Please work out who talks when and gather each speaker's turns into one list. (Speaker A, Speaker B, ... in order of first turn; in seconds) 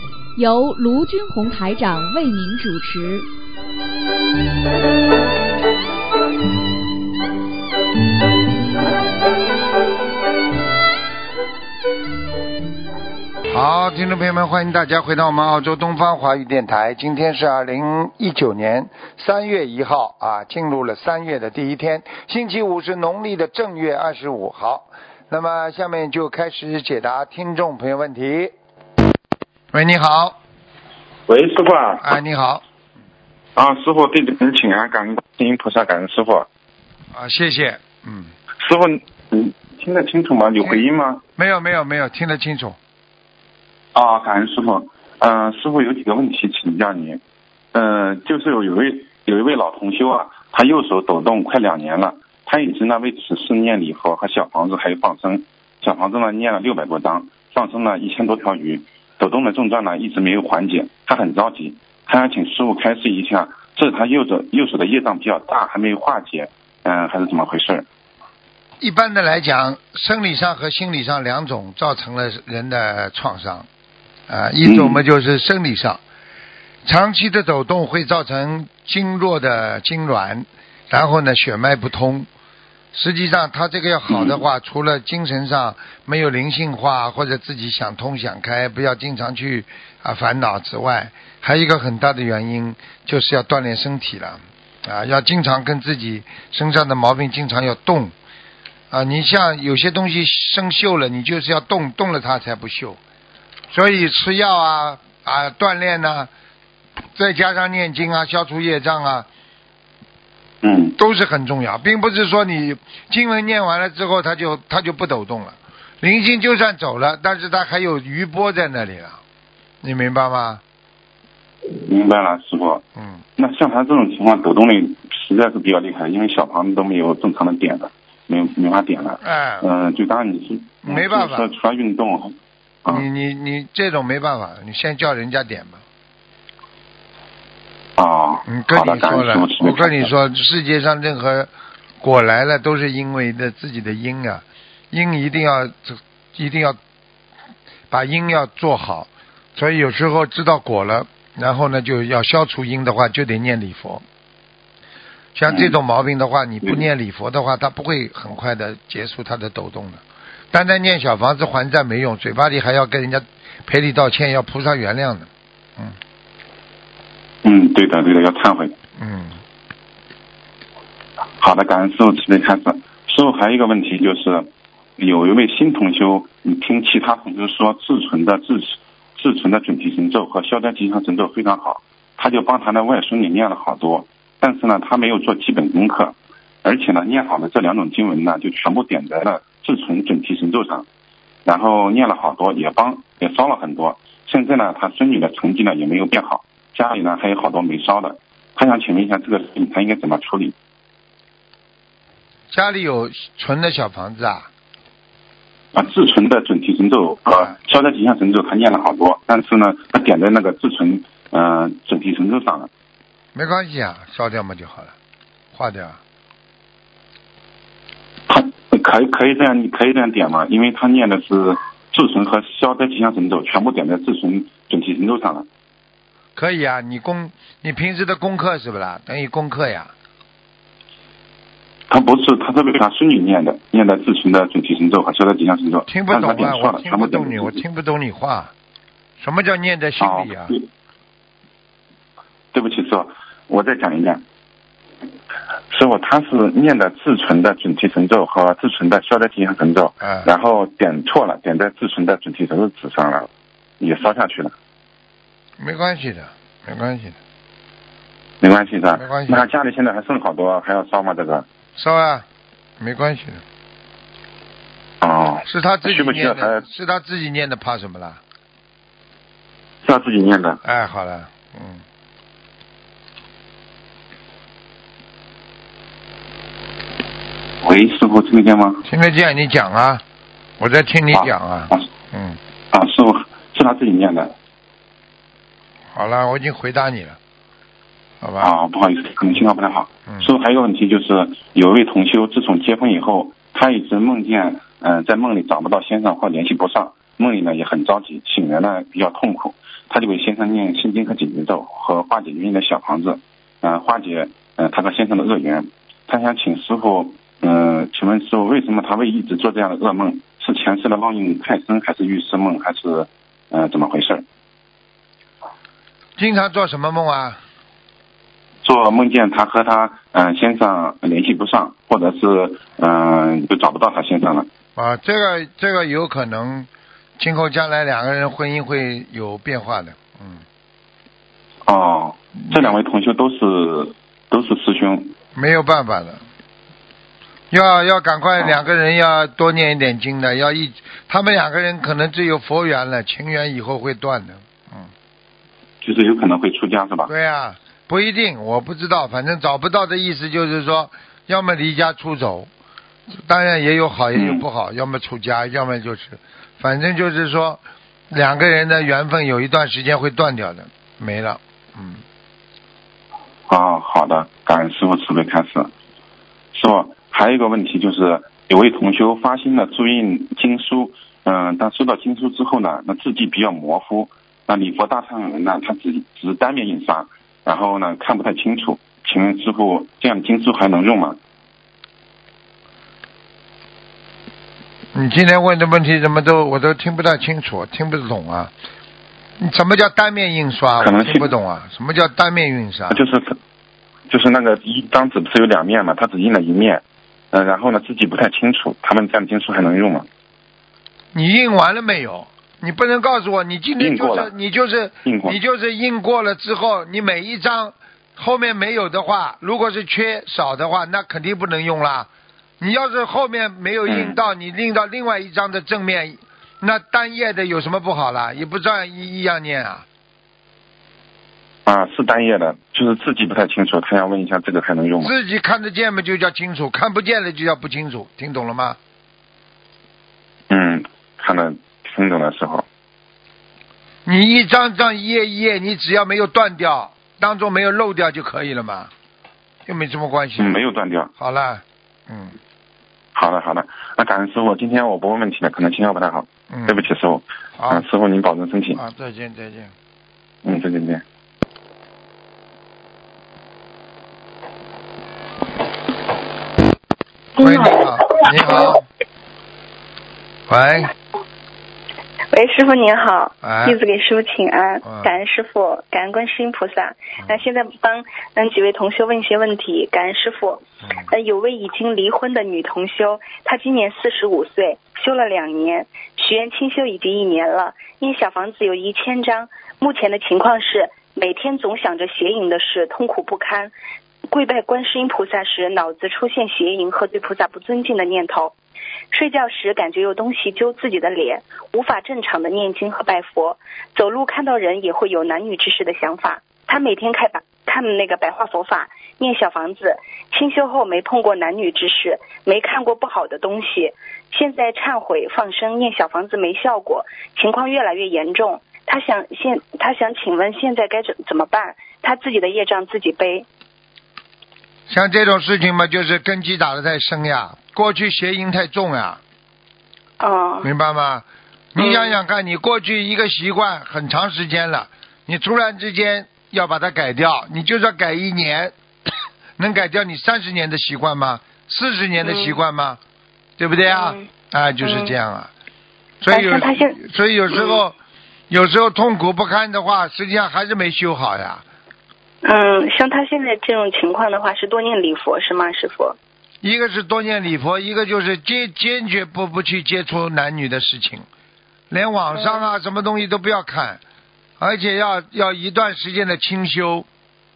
Speaker A: 0.3-3.3
Speaker B: 13.5-28.5, 29.7-30.4, 32.0-32.6, 37.1-38.3, 41.4-42.8, 68.8-73.7, 74.3-76.0, 76.8-82.3, 82.9-98.1, 98.9-103.0, 103.7-106.3, 107.1-109.3, 111.0-119.2, 119.8-120.6, 129.2-129.7, 130.8-131.5, 132.8-135.8, 138.5-141.5, 142.0-146.8, 147.9-154.0, 155.3-166.0, 169.0-169.4, 202.5-204.5, 213.3-214.9, 215.5-216.0, 226.3-229.9, 235.9-238.5, 239.2-240.6, 250.0-250.3, 255.6-257.1, 258.9-259.5, 261.8-262.2, 262.8-263.4, 265.4-268.2, 270.6-271.8, 278.9-280.0, 280.6-282.4, 285.9-287.2, 288.2-288.5, 316.2-317.4, 324.8-330.4, 332.5-332.8, 335.3-336.2, 337.5-344.9, 347.1-352.5, 353.1-362.0, 384.9-388.5, 389.4-393.0, 401.1-412.1, 412.6-419.8, 425.0-428.8, 434.1-438.9, 439.6-440.6, 441.2-442.4, 446.5-446.8, 447.6-447.9, 448.7-449.7, 457.4-458.8, 460.5-460.9, 463.4-463.8, 464.8-465.1, 514.9-519.2, 520.6-528.7, 529.6-533.0, 533.6-535.5, 536.2-538.0, 538.5-541.6, 546.6-551.3, 551.9-554.0, 554.6-557.0
Speaker C: 31.3-32.0, 33.5-36.5, 38.6-41.2, 43.9-47.2, 47.7-67.8, 74.6-75.0, 84.1-84.4, 110.6-111.0, 121.8-122.8, 123.4-133.0, 138.0-140.1, 155.5-155.7, 167.4-168.7, 171.4-174.5, 175.0-190.8, 191.4-200.5, 205.7-212.7, 218.3-225.5, 231.9-237.6, 240.0-240.6, 242.5-244.2, 245.7-253.3, 253.8-254.5, 258.4-261.4, 265.0-266.6, 269.8-270.6, 277.6-278.8, 281.1-281.8, 282.7-284.3, 288.4-314.2, 318.6-324.5, 331.7-335.1, 345.8-347.1, 354.1-354.4, 363.5-365.7, 366.5-381.2, 390.8-391.3, 392.9-393.4, 394.1-400.1, 403.8-404.3, 405.0-405.4, 413.9-414.2, 421.6-425.1, 430.5-432.6, 440.4-441.1, 443.1-448.8, 450.4-451.0
Speaker D: 457.4-458.7, 462.3-483.7, 484.3-488.5, 489.1-513.5, 520.2-520.7, 521.8-522.1, 532.2-532.6, 533.9-534.3, 534.8-535.1, 536.3-537.0, 537.5-537.8, 542.4-546.2